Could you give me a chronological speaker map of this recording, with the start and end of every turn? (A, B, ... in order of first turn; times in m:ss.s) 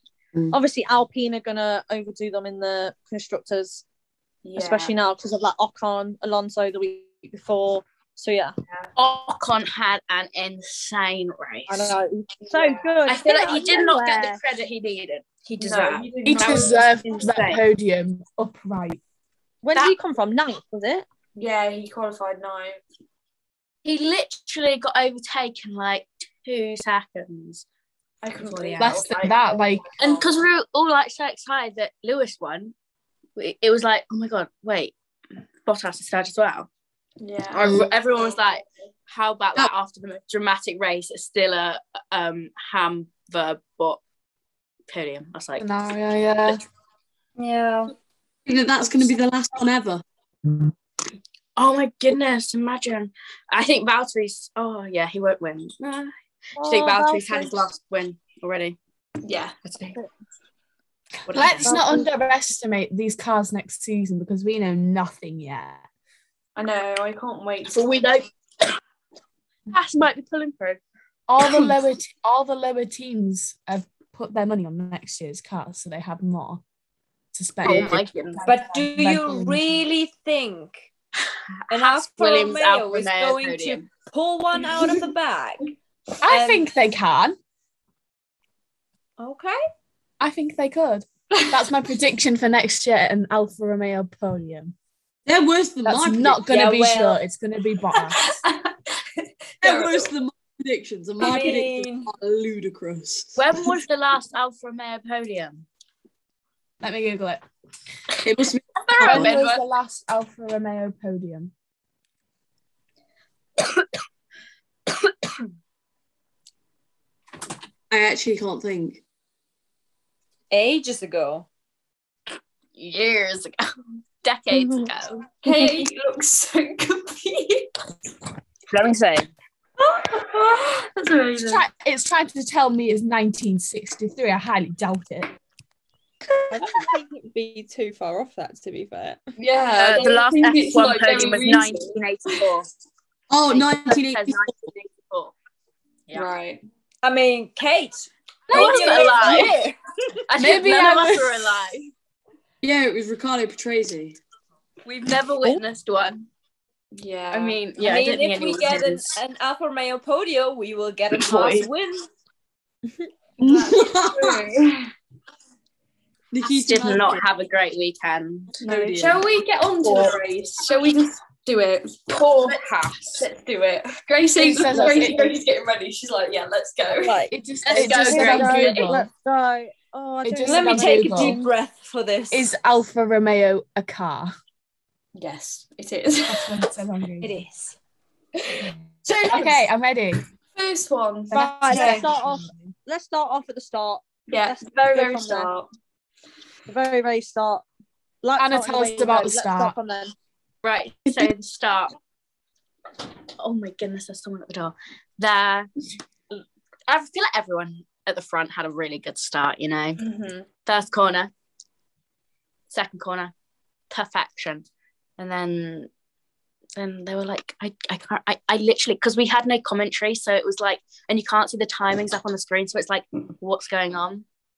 0:00.5-0:03.8 A
0:04.4-0:04.9 B
0:04.6-0:08.5 A
0:09.0-0:11.9 C
0:11.7-0:14.4 A
0:12.5-0:12.9 B
0:13.0-0:16.5 C
0:15.6-0:17.1 B
0:16.2-0:19.0 D
0:17.0-0:17.6 C
0:19.6-0:21.0 A
0:21.4-0:22.8 B
0:23.8-0:27.6 C
0:28.2-0:30.4 B
0:28.4-0:29.0 C
0:28.8-0:29.8 D
0:30.0-0:32.7 C
0:33.4-0:34.9 C
0:35.6-0:36.7 C
0:37.2-0:38.4 B
0:37.5-0:44.0 C
0:44.9-0:45.7 C
0:45.6-0:46.6 D
0:47.4-0:47.9 E
0:48.4-0:50.0 F
0:51.6-0:58.8 C
0:56.6-0:57.7 A
0:59.2-0:59.6 B
0:59.6-1:00.0 C
1:01.3-1:01.7 C
1:01.3-1:05.8 D
1:01.6-1:02.1 A
1:06.6-1:07.9 B
1:07.7-1:08.3 C
1:09.7-1:10.8 C
1:11.3-1:16.6 D
1:11.4-1:11.7 C
1:17.3-1:19.7 D
1:17.6-1:18.4 C
1:18.4-1:20.9 E
1:21.7-1:23.8 C
1:21.7-1:25.7 E
1:26.2-1:27.4 D
1:26.3-1:26.6 E
1:29.2-1:29.6 E
1:30.2-1:34.7 D
1:31.4-1:31.6 B
1:35.2-1:36.5 F
1:35.8-1:38.3 D
1:36.5-1:37.2 E
1:37.9-1:40.1 B
1:39.6-1:43.4 F
1:41.2-1:42.1 E
1:43.4-1:45.6 C
1:46.8-1:47.4 D
1:48.2-1:49.3 F
1:48.9-1:49.6 C
1:49.0-1:51.5 D
1:57.9-1:59.0 F
2:00.5-2:01.4 E
2:02.8-2:03.6 C
2:04.2-2:05.2 C
2:04.5-2:04.9 A
2:05.4-2:07.8 B
2:05.5-2:05.8 A
2:08.7-2:09.3 C
2:09.8-2:11.6 B
2:11.4-2:15.3 D
2:16.5-2:19.2 G
2:19.4-2:22.4 B
2:19.8-2:22.7 C
2:23.3-2:24.5 F
2:23.5-2:25.3 C
2:26.1-2:26.6 B
2:27.0-2:29.8 E
2:28.5-2:29.5 C
2:28.5-2:29.5 D
2:30.3-2:31.9 C
2:30.4-2:31.5 D
2:32.6-2:34.2 F
2:34.8-2:36.3 C
2:36.9-2:37.6 B
2:37.3-2:39.2 C
2:37.8-2:42.1 E
2:41.2-2:41.7 F
2:43.4-2:44.5 F
2:43.4-2:44.9 B
2:46.3-2:47.2 F
2:46.5-2:48.5 C
2:48.6-2:49.2 F
2:48.6-2:52.6 B
2:52.2-2:53.2 C
2:53.2-2:57.3 B
2:54.4-2:55.3 D
2:54.8-2:55.1 A
2:57.0-3:01.5 A
2:57.3-2:59.0 D
2:57.6-2:58.9 C
3:00.2-3:01.4 D
3:00.4-3:02.5 E
3:02.3-3:04.3 D
3:05.2-3:06.7 B
3:06.3-3:07.4 D
3:07.2-3:07.8 E
3:09.1-3:09.7 B
3:09.3-3:10.2 D
3:10.5-3:12.0 B
3:11.3-3:12.7 D
3:11.3-3:15.5 A
3:11.7-3:12.0 E
3:14.3-3:15.7 B
3:16.7-3:17.6 A
3:18.2-3:20.1 A
3:18.4-3:19.8 D
3:20.6-3:21.9 C
3:23.4-3:25.7 C
3:26.3-3:30.0 C
3:30.0-3:30.5 B
3:30.6-3:31.3 C
3:32.7-3:33.3 C
3:33.9-3:34.6 C
3:35.2-3:35.9 C
3:36.8-3:44.2 C